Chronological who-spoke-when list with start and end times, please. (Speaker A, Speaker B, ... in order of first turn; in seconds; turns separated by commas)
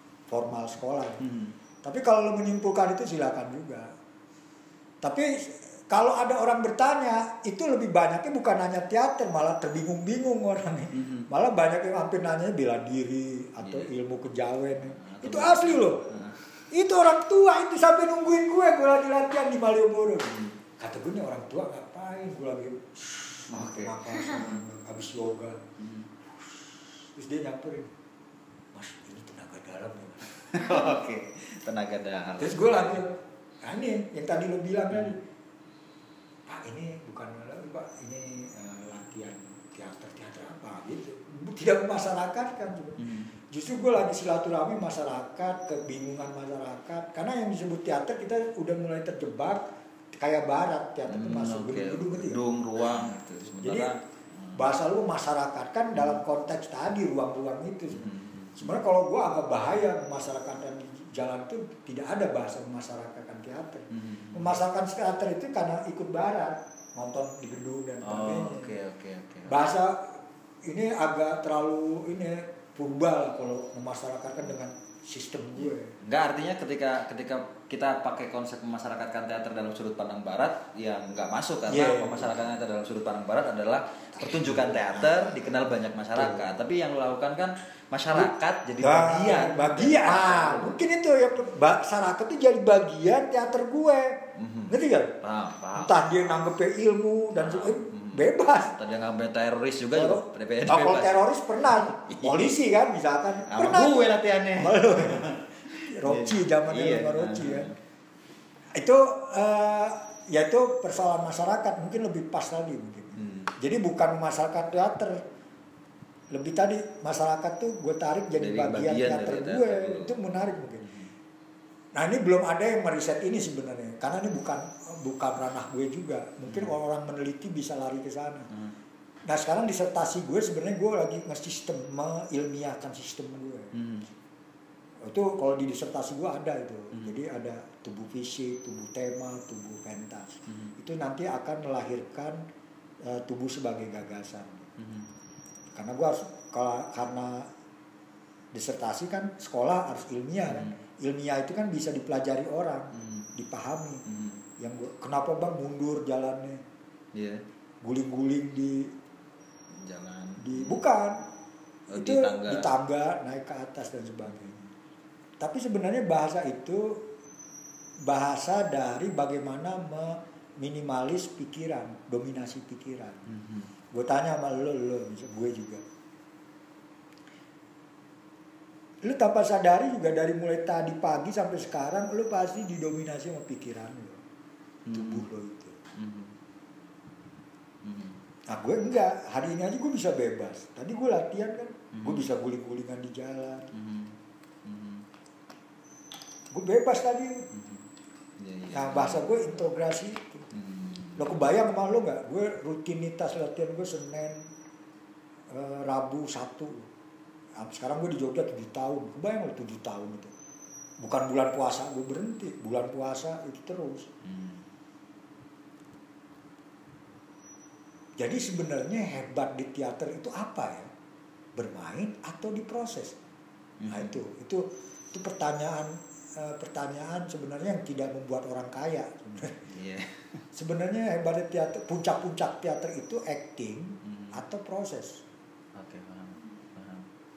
Speaker A: 0.3-1.2, Speaker B: 1.2-1.5, Speaker A: 1.8-3.9, Speaker A: 5.0-16.1, Speaker B: 10.9-11.3, Speaker B: 13.6-13.9, Speaker B: 14.8-16.6, Speaker A: 16.7-25.6, Speaker B: 23.5-24.6, Speaker B: 25.8-26.1, Speaker A: 27.1-27.9, Speaker A: 28.7-30.9, Speaker B: 30.5-33.0, Speaker A: 32.4-35.2, Speaker A: 36.5-49.6, Speaker B: 43.0-43.3, Speaker A: 50.2-53.9, Speaker B: 51.1-54.7, Speaker A: 54.5-68.7, Speaker B: 55.9-56.2, Speaker B: 57.9-58.8, Speaker B: 63.9-64.6, Speaker B: 68.0-69.6, Speaker A: 69.5-75.9, Speaker B: 76.0-90.8, Speaker A: 81.7-82.4, Speaker A: 84.2-85.5, Speaker A: 86.1-86.5, Speaker A: 88.1-94.2, Speaker B: 94.3-96.1, Speaker A: 94.7-95.1, Speaker A: 95.7-98.8, Speaker B: 97.3-101.2, Speaker A: 99.9-107.7, Speaker B: 102.0-102.5, Speaker B: 103.5-107.7, Speaker A: 108.7-115.2, Speaker B: 113.2-113.5, Speaker A: 116.3-120.9, Speaker B: 118.4-120.2, Speaker B: 120.8-121.1, Speaker A: 121.9-128.5, Speaker B: 126.5-126.7, Speaker A: 129.2-133.7, Speaker B: 133.7-134.1, Speaker A: 135.0-142.4, Speaker A: 143.0-144.7, Speaker B: 144.8-145.1, Speaker A: 145.7-147.5, Speaker A: 148.5-154.0, Speaker B: 150.5-150.8, Speaker B: 153.0-153.3, Speaker B: 154.1-154.4, Speaker A: 154.6-156.6, Speaker B: 157.1-157.4, Speaker A: 157.8-158.9, Speaker B: 159.7-160.8, Speaker A: 160.4-161.2, Speaker B: 161.9-162.7, Speaker A: 161.9-164.7, Speaker A: 165.4-167.0, Speaker A: 168.1-173.3, Speaker B: 173.3-173.7, Speaker A: 173.9-175.8, Speaker A: 179.0-184.2, Speaker B: 184.8-185.2, Speaker A: 184.9-185.8, Speaker B: 186.0-186.3, Speaker B: 187.8-188.2, Speaker A: 188.5-193.7, Speaker B: 191.9-192.2, Speaker B: 193.7-195.1, Speaker A: 196.5-197.5, Speaker B: 197.5-197.8, Speaker B: 198.4-199.6, Speaker A: 198.7-200.5, Speaker B: 200.5-201.4, Speaker A: 201.2-204.4, Speaker A: 205.5-206.9, Speaker A: 207.6-210.3, Speaker A: 211.0-214.1, Speaker B: 214.2-214.7, Speaker A: 218.2-220.9, Speaker A: 221.6-223.2, Speaker B: 223.8-224.2, Speaker A: 223.9-229.6, Speaker B: 229.7-230.4, Speaker A: 230.5-235.2, Speaker B: 234.1-234.3, Speaker B: 235.8-237.1